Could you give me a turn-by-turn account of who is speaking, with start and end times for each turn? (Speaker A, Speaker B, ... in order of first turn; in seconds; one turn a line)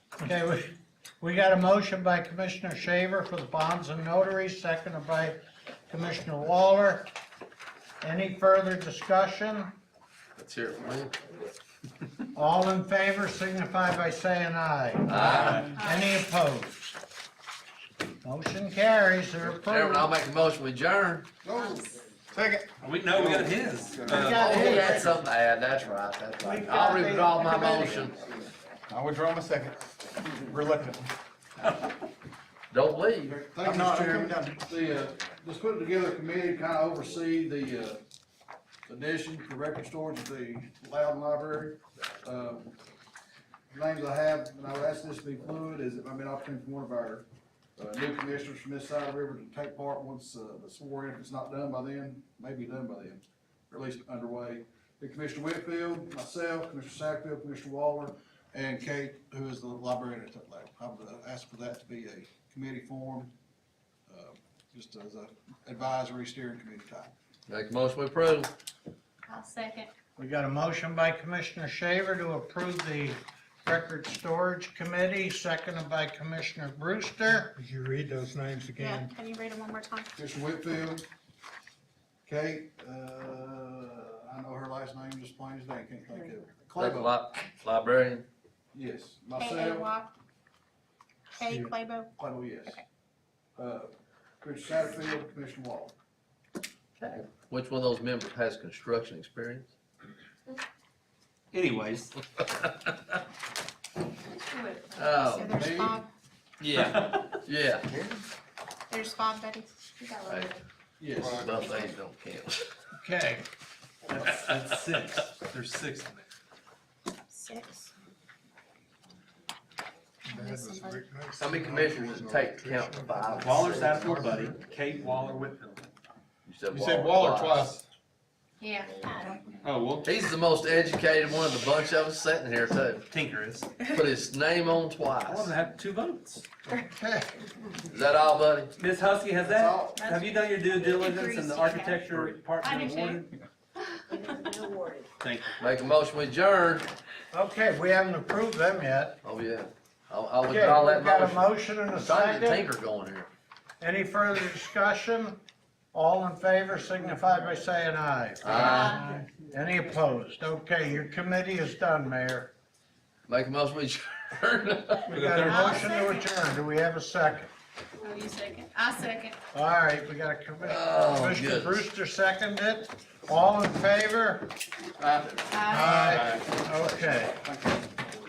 Speaker A: 0.2-7.1
Speaker A: 8.0-9.7
Speaker B: 10.4-11.2
Speaker A: 12.3-17.0
Speaker B: 15.1-15.7
Speaker C: 15.2-15.7
Speaker D: 15.8-16.1
Speaker A: 18.2-20.1
Speaker B: 19.5-21.3
Speaker D: 21.5-22.0
Speaker E: 22.3-24.5
Speaker C: 22.8-24.8
Speaker A: 24.1-25.2
Speaker B: 24.2-28.2
Speaker A: 26.4-28.1
Speaker E: 28.9-31.1
Speaker B: 32.7-33.4
Speaker F: 33.3-38.0
Speaker E: 33.6-34.5
Speaker A: 34.1-34.5
Speaker F: 38.9-42.8
Speaker F: 43.7-47.3
Speaker F: 47.8-63.3
Speaker F: 64.1-67.1
Speaker B: 67.5-68.5
Speaker D: 69.3-69.9
Speaker A: 70.2-77.6
Speaker E: 77.6-79.1
Speaker D: 78.8-80.1
Speaker F: 80.2-81.1
Speaker F: 82.2-87.2
Speaker B: 86.7-88.3
Speaker F: 88.7-89.9
Speaker D: 89.4-90.1
Speaker D: 91.4-92.1
Speaker E: 91.5-91.7
Speaker F: 92.2-92.8
Speaker F: 93.6-96.0
Speaker B: 97.0-99.7
Speaker C: 101.5-102.1
Speaker B: 102.4-103.0
Speaker D: 104.3-106.1
Speaker B: 105.0-105.5
Speaker F: 105.4-106.0
Speaker C: 106.6-107.4
Speaker B: 106.7-108.0
Speaker D: 108.9-110.6
Speaker B: 110.3-110.5
Speaker F: 111.0-111.7
Speaker B: 111.2-112.7
Speaker A: 113.0-113.4
Speaker C: 114.1-116.3
Speaker D: 117.3-117.9
Speaker D: 120.3-121.1
Speaker E: 120.3-124.6
Speaker B: 121.4-124.2
Speaker C: 123.4-125.8
Speaker B: 126.5-127.8
Speaker E: 126.7-127.8
Speaker D: 128.6-129.6
Speaker C: 129.6-130.1
Speaker B: 130.0-133.1
Speaker C: 133.1-133.7
Speaker B: 133.8-135.5
Speaker C: 135.3-136.4
Speaker F: 136.9-137.2
Speaker B: 137.8-138.7
Speaker C: 138.8-143.3
Speaker F: 139.4-140.2
Speaker D: 140.0-143.3
Speaker D: 144.1-144.8
Speaker C: 145.2-145.7
Speaker B: 145.6-146.9
Speaker A: 147.3-149.2
Speaker B: 149.2-153.3
Speaker A: 150.4-152.7
Speaker A: 153.8-155.4
Speaker A: 155.9-162.5
Speaker B: 158.4-159.1
Speaker D: 158.6-159.1
Speaker B: 163.3-165.3
Speaker A: 165.1-167.5
Speaker C: 165.1-165.8
Speaker D: 165.4-166.3
Speaker D: 168.0-169.4
Speaker A: 169.5-174.6
Speaker B: 170.6-171.9
Speaker F: 175.0-176.6
Speaker D: 175.5-175.9
Speaker A: 175.7-177.4
Speaker F: 177.5-177.8